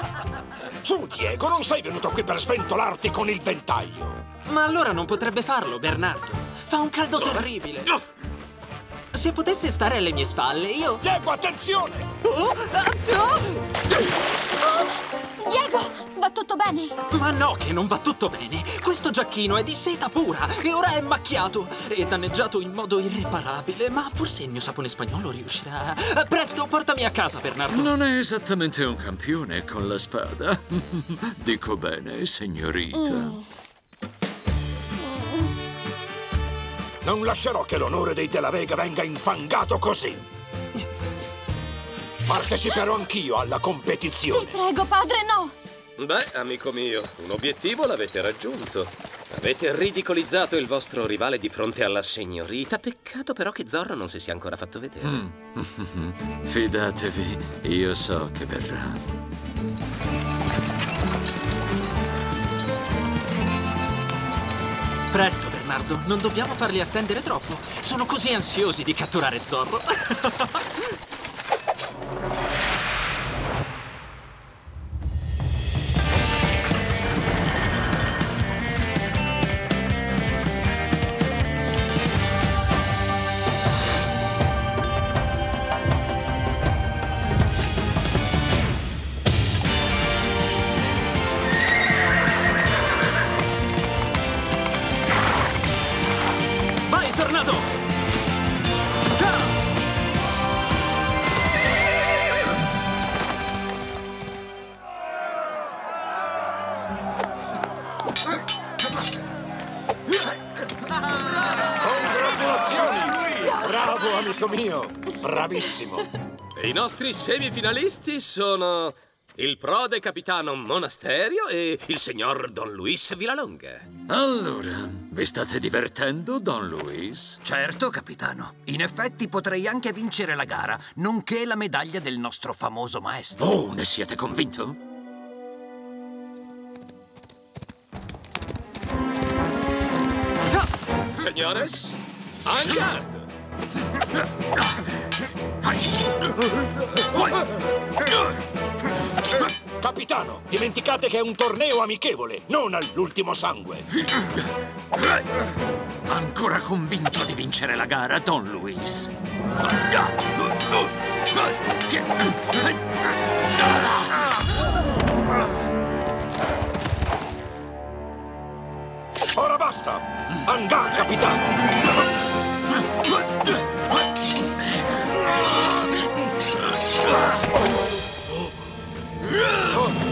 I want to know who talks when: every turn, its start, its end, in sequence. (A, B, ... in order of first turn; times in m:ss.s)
0:00.8-0:04.2 A
0:04.4-0:07.9 B
0:09.1-0:11.0 B
0:11.0-0:12.1 A
0:12.2-0:13.8 B
0:14.6-0:17.0 C
0:17.1-0:27.9 B
0:27.7-0:33.4 D
0:37.0-0:40.2 A
0:42.2-0:44.6 A
0:45.0-0:45.5 C
0:46.0-0:55.2 E
0:55.0-0:59.0 D
1:05.1-1:10.7 B
1:36.9-1:37.7 B
1:51.8-1:56.1 A
1:56.6-2:03.9 E
2:04.1-2:07.4 D
2:07.6-2:13.3 F
2:07.7-2:09.4 A
2:10.2-2:13.0 A
2:13.4-2:14.8 D
2:21.2-2:23.2 E
2:29.8-2:33.9 A
2:36.1-2:39.1 D
2:41.9-2:42.7 D
2:43.7-2:44.2 D
2:49.3-2:51.4 A